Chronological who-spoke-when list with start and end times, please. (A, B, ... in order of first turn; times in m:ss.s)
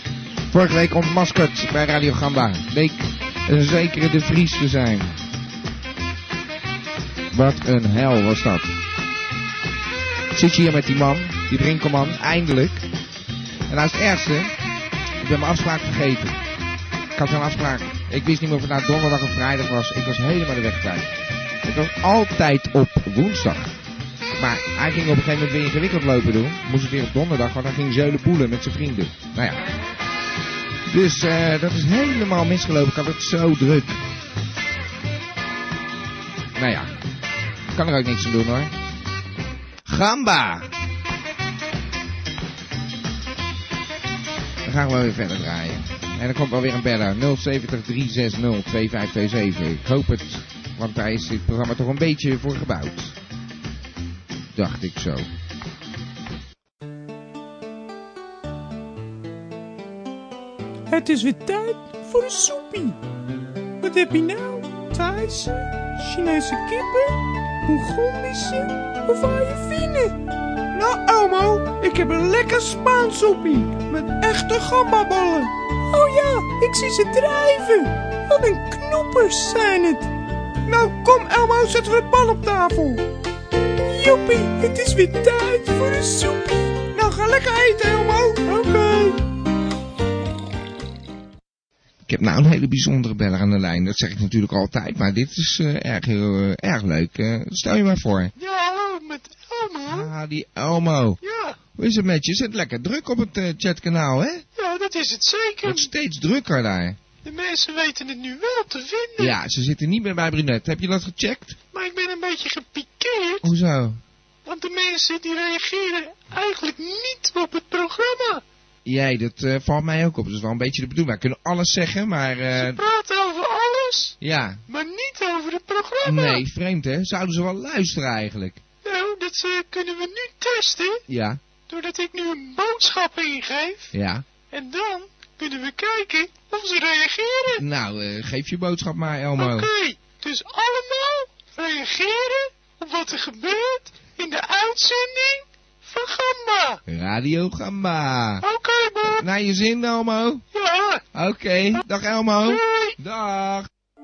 0:00.5-0:05.2 A
0:07.3-0:08.7 A
0:10.3-0:12.8 A
0:13.7-0:14.5 A
0:15.2-0:16.4 A
0:17.1-0:21.1 A
0:21.6-0:23.7 A
0:24.3-0:29.6 A
0:30.8-0:34.0 A
0:36.6-0:36.9 A
0:37.7-0:38.7 A
0:39.8-0:40.7 A
0:44.6-0:53.2 A
0:54.5-0:55.3 A
1:00.9-1:03.0 B
1:03.8-1:10.2 B
1:10.7-1:20.1 B
1:20.7-1:23.0 B
1:23.9-1:29.2 B
1:32.1-1:38.3 A
1:38.4-1:40.1 C
1:39.9-1:41.2 A
1:41.2-1:41.6 C
1:41.8-1:44.4 A
1:44.6-1:45.9 C
1:45.6-1:47.0 A
1:47.2-1:49.3 C
1:49.2-1:51.6 A
1:51.7-1:53.5 C
1:53.4-1:54.0 A
1:54.4-1:58.4 C
1:58.8-2:02.8 A
2:02.6-2:04.1 C
2:04.2-2:04.6 A
2:04.7-2:06.4 C
2:06.0-2:08.6 A
2:08.8-2:11.0 C
2:11.1-2:11.4 A
2:11.7-2:13.9 C
2:13.9-2:14.2 A
2:14.5-2:17.6 C
2:17.6-2:19.7 A
2:19.4-2:26.8 C
2:26.9-2:28.4 A
2:28.4-2:29.2 C
2:29.1-2:30.4 A
2:30.5-2:31.0 C
2:31.1-2:33.7 A
2:32.5-2:32.9 C